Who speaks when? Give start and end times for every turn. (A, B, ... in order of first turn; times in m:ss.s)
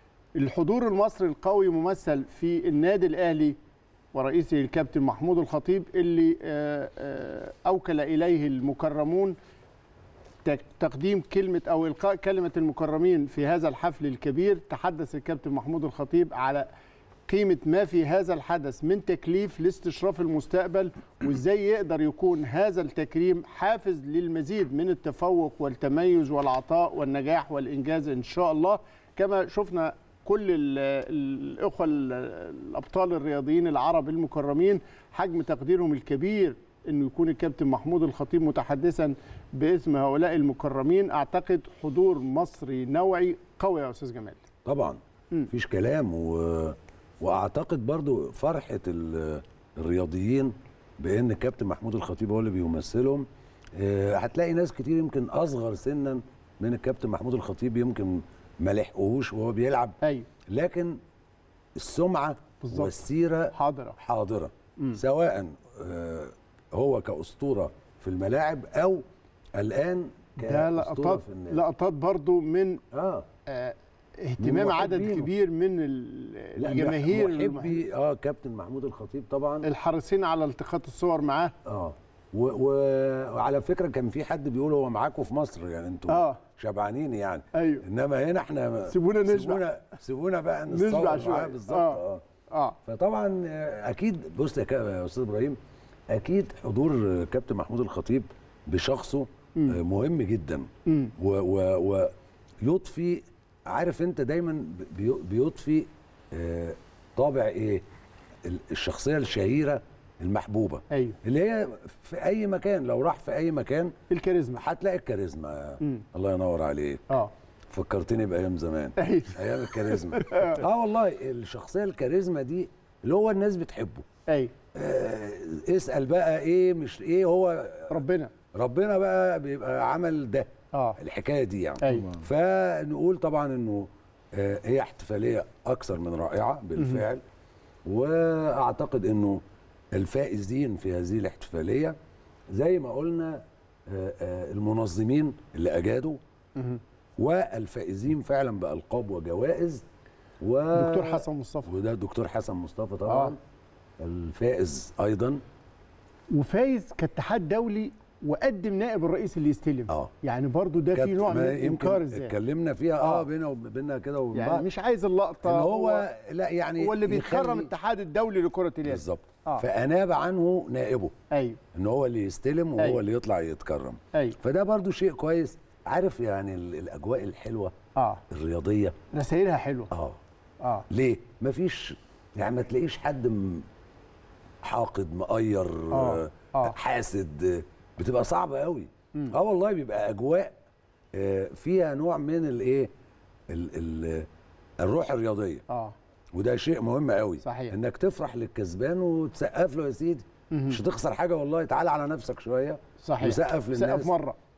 0:00.4-0:03.6 A
0:04.1-0:09.4 A
0:10.4-0:16.7 A
0:17.3-0:44.4 A
0:44.6-1:01.0 B
1:00.0-1:00.3 A
1:01.8-1:09.0 B
1:02.6-1:03.0 A
1:03.5-1:04.0 A
1:09.6-1:11.6 B
1:10.4-1:12.8 A
1:12.9-1:13.3 B
1:13.5-1:17.8 A
1:14.4-1:15.3 B
1:16.6-1:19.7 B
1:19.6-1:21.5 A
1:21.6-1:32.2 B
1:26.1-1:26.4 A
1:27.5-1:27.9 A
1:28.9-1:29.6 A
1:30.7-1:32.8 A
1:32.9-1:35.6 B
1:36.1-1:42.1 B
1:40.9-1:41.2 A
1:42.6-1:47.8 B
1:48.4-1:53.9 B
1:50.9-1:51.2 A
1:54.1-1:54.6 A
1:54.6-1:57.1 B
1:57.7-2:04.0 B
1:59.0-2:00.6 A
2:04.3-2:04.5 A
2:04.8-2:08.0 B
2:07.9-2:08.3 A
2:08.6-2:17.2 B
2:10.7-2:11.0 A
2:11.8-2:12.2 A
2:16.8-2:17.0 A
2:17.8-2:19.4 B
2:20.0-2:22.0 B
2:22.5-2:26.2 B
2:26.6-2:26.8 A
2:27.2-2:29.8 B
2:30.4-2:33.4 B
2:30.7-2:31.7 A
2:33.1-2:33.4 A
2:34.0-2:35.4 B
2:36.3-2:42.4 A
2:40.9-2:44.7 B
2:43.0-2:43.3 A
2:44.3-2:46.1 A
2:45.4-2:47.7 B
2:46.8-2:49.7 A
2:48.8-2:51.1 B
2:51.3-2:51.6 A
2:51.7-2:57.8 B
2:54.1-2:54.4 A
2:58.0-2:58.2 A
2:58.3-2:59.0 B
2:59.1-2:59.9 A
2:59.9-3:00.2 B
3:00.6-3:00.9 A
3:00.9-3:03.6 B
3:04.6-3:10.6 B
3:05.9-3:06.8 A
3:11.1-3:12.9 B
3:13.5-3:14.3 B
3:14.8-3:15.6 B
3:15.7-3:16.0 A
3:16.3-3:24.1 B
3:17.4-3:17.8 A
3:20.5-3:20.8 A
3:23.0-3:24.4 A